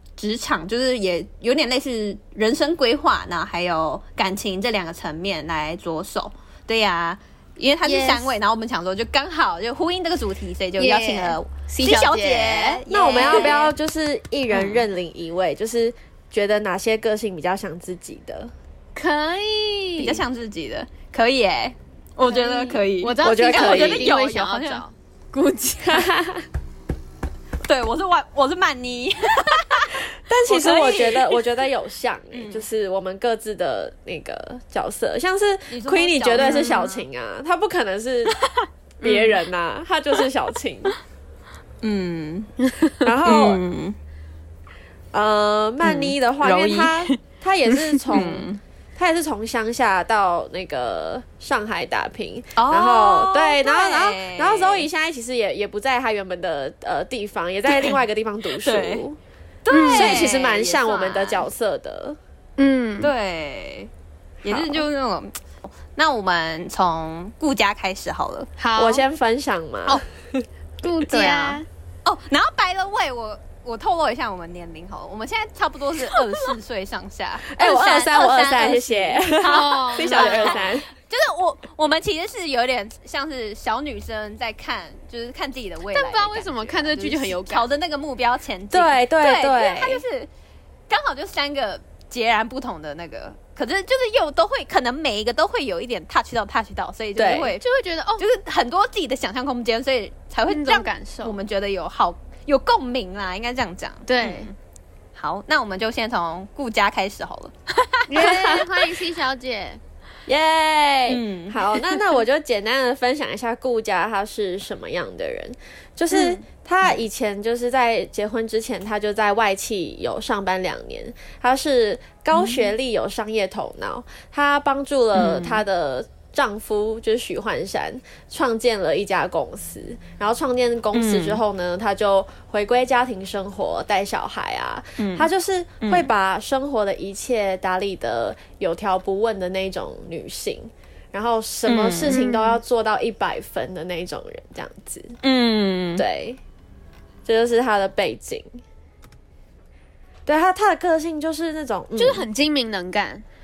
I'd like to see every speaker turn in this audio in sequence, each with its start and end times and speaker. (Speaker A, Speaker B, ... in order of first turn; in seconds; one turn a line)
Speaker A: 0.2-13.7
Speaker B: 7.8-8.3
Speaker B: 10.8-13.6
Speaker C: 12.9-18.5
Speaker A: 14.5-14.9
Speaker B: 18.9-20.2
Speaker A: 20.0-26.0
Speaker B: 22.2-24.9
Speaker C: 23.2-24.1
Speaker C: 25.8-26.4
Speaker A: 27.6-31.4
Speaker C: 30.1-38.4
Speaker A: 32.3-32.6
Speaker A: 35.7-37.1
Speaker B: 36.4-36.8
Speaker B: 39.0-39.5
Speaker C: 39.0-41.0
Speaker A: 41.8-42.5
Speaker B: 42.6-43.0
Speaker C: 43.0-43.6
Speaker A: 43.2-44.0
Speaker C: 45.1-59.2
Speaker A: 45.8-46.9
Speaker B: 47.7-48.2
Speaker A: 48.1-48.6
Speaker A: 52.6-54.9
Speaker A: 58.6-59.0
Speaker A: 59.6-61.5
Speaker B: 59.7-60.3
Speaker C: 59.9-62.2
Speaker B: 62.6-63.1
Speaker A: 63.0-63.9
Speaker C: 64.4-64.9
Speaker A: 64.4-68.5
Speaker B: 68.6-69.0
Speaker C: 68.8-70.5
Speaker B: 70.8-71.7
Speaker A: 71.1-90.3
Speaker B: 76.1-76.5
Speaker C: 77.5-80.9
Speaker B: 79.4-80.7
Speaker B: 85.9-87.7
Speaker C: 88.7-90.0
Speaker A: 90.9-97.6
Speaker C: 97.2-97.6
Speaker B: 97.6-98.3
Speaker A: 98.2-104.5
Speaker B: 100.5-101.4
Speaker B: 104.1-104.5
Speaker A: 105.2-108.6
Speaker B: 108.1-109.8
Speaker C: 108.2-108.7
Speaker C: 110.3-145.2
Speaker A: 111.1-112.2
Speaker A: 116.1-117.0
Speaker A: 122.3-122.7
Speaker A: 125.1-125.6
Speaker A: 130.9-131.4
Speaker A: 135.0-135.3
Speaker A: 135.8-136.1
Speaker A: 141.7-142.3
Speaker B: 142.1-142.5
Speaker A: 145.2-146.1
Speaker C: 146.0-146.4
Speaker C: 147.2-148.6
Speaker C: 150.3-152.3
Speaker B: 152.0-153.2